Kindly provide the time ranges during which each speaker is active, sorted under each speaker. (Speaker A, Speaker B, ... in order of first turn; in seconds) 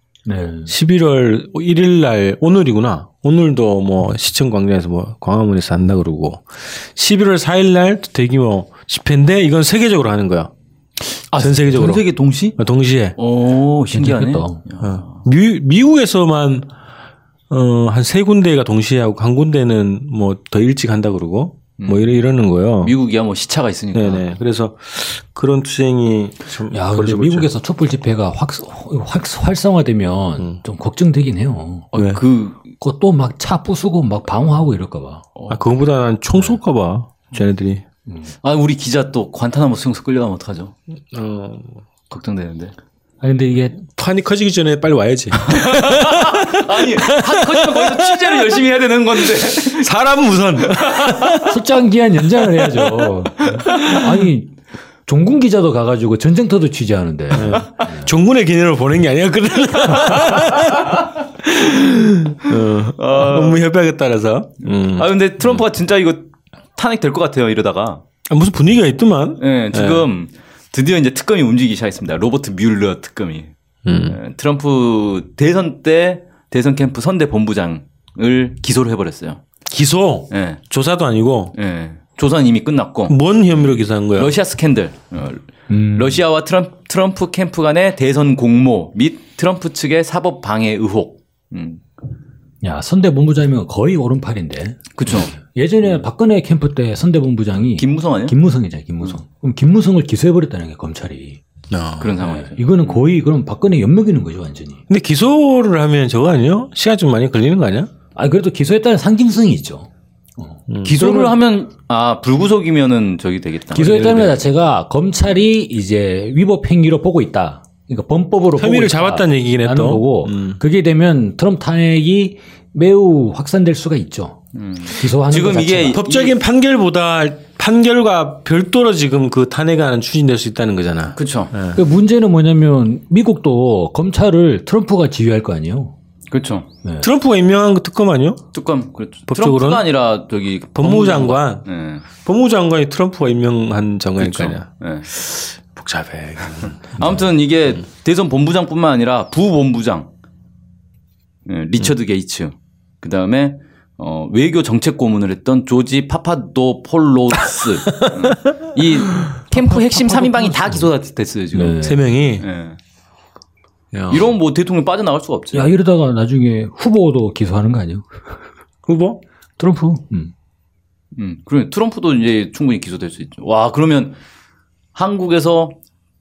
Speaker A: 0.3-0.7, 13.9-14.6, 26.7-31.9, 32.8-35.2, 38.1-38.3, 43.2-43.8, 51.5-58.1, 85.7-86.2, 92.6-101.4, 102.2-104.8, 108.1-111.4, 113.7-124.4, 124.9-126.0, 131.8-135.9, 159.5-160.9, 161.5-162.0, 165.5-168.2, 169.6-170.3
Speaker B: 0.7-10.5, 11.4-13.2, 14.8-16.7, 17.5-22.9, 23.9-27.5, 31.9-32.2, 35.5-37.8, 41.1-41.8, 43.8-48.5, 49.4-51.6, 53.7-54.0, 57.3-65.7, 68.3-70.1, 73.8-74.2, 79.7-81.5, 83.1-84.3, 101.7-102.2, 104.9-107.9, 110.7-111.0, 118.6-120.6, 125.9-131.8, 137.0-138.5, 139.3-139.9, 140.8-144.7, 145.7-147.2, 161.8-162.5, 163.9-164.3, 168.9-169.2
Speaker C: 11.3-12.6, 13.2-15.2, 21.8-22.2, 22.8-24.4, 31.9-32.7, 35.4-35.7, 38.4-40.7, 42.1-42.7, 45.4-49.9, 50.6-51.4, 53.5-53.9, 63.0-63.7, 64.9-68.0, 69.4-79.4, 80.3-80.6, 81.5-83.2, 84.1-91.8, 95.0-95.3, 97.7-98.4, 102.0-103.2, 110.8-114.5, 124.5-126.4, 131.2-131.6, 136.3-136.7, 138.5-142.1, 144.2-145.5, 146.6-150.1, 151.5-162.8, 164.1-165.7, 171.2-174.2, 174.9-175.8